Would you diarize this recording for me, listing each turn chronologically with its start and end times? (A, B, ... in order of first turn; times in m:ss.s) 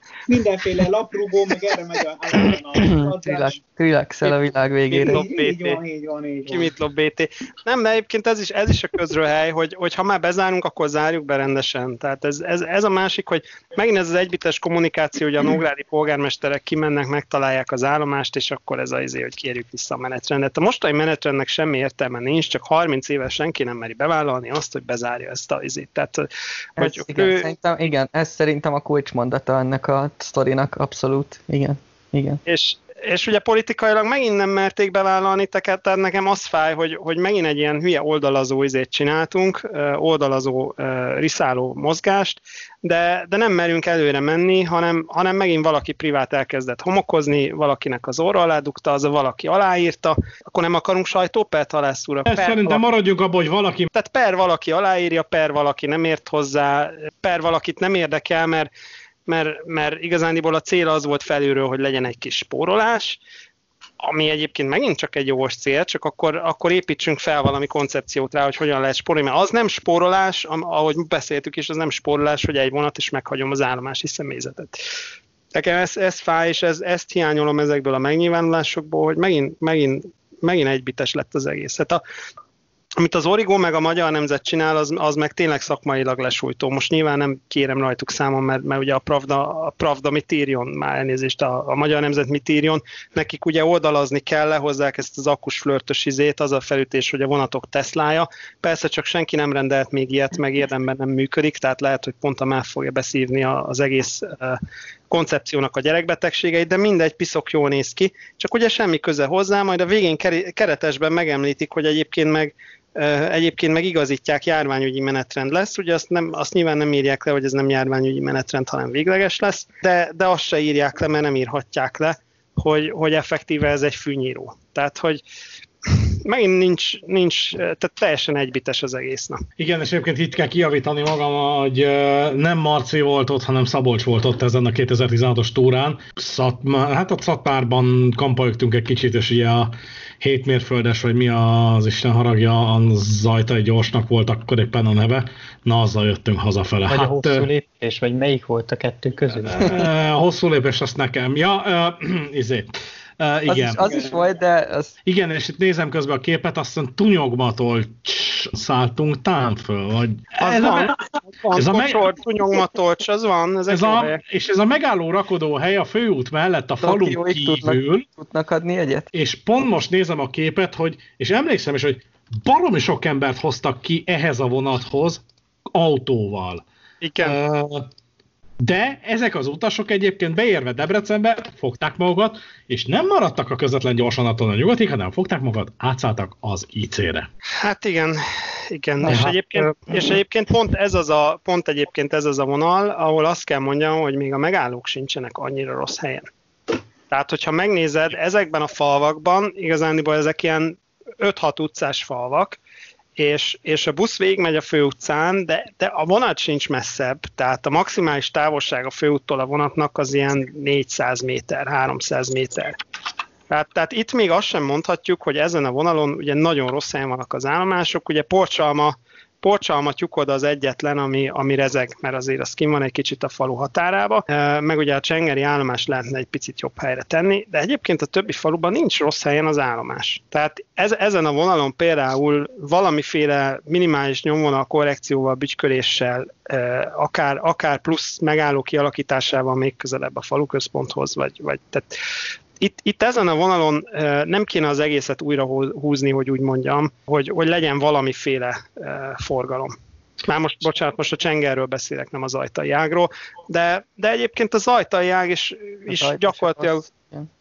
0:00.3-0:03.6 A
0:02.3-0:05.2 B
0:04.9-0:05.8 C
0:05.0-0:06.7 A
0:06.5-0:27.5 C
0:26.8-0:32.4 B
0:32.4-0:52.8 C
0:52.3-0:53.9 D
0:53.9-0:58.7 C
0:59.3-1:03.2 C
1:04.0-1:14.7 C
1:15.5-1:22.0 C
1:23.0-2:05.2 C
2:05.9-2:09.4 C
2:09.6-2:27.5 D
2:26.9-2:29.8 E
2:29.5-2:32.7 D
2:33.2-2:33.8 D
2:33.5-2:34.9 B
2:33.8-2:34.1 A
2:35.0-2:42.0 D
2:40.4-2:44.2 C
2:43.7-2:48.0 D
2:46.8-2:49.1 B
2:49.1-2:55.2 D
2:55.7-2:56.6 D
2:57.0-2:57.4 C
2:57.2-2:57.9 D
2:58.6-3:07.3 D
3:07.6-3:16.3 C
3:09.0-3:09.4 D
3:17.1-3:22.6 C
3:23.2-3:32.8 C
3:33.5-4:01.9 C
4:02.6-4:09.7 C
4:10.2-4:16.8 C
4:15.9-4:17.3 B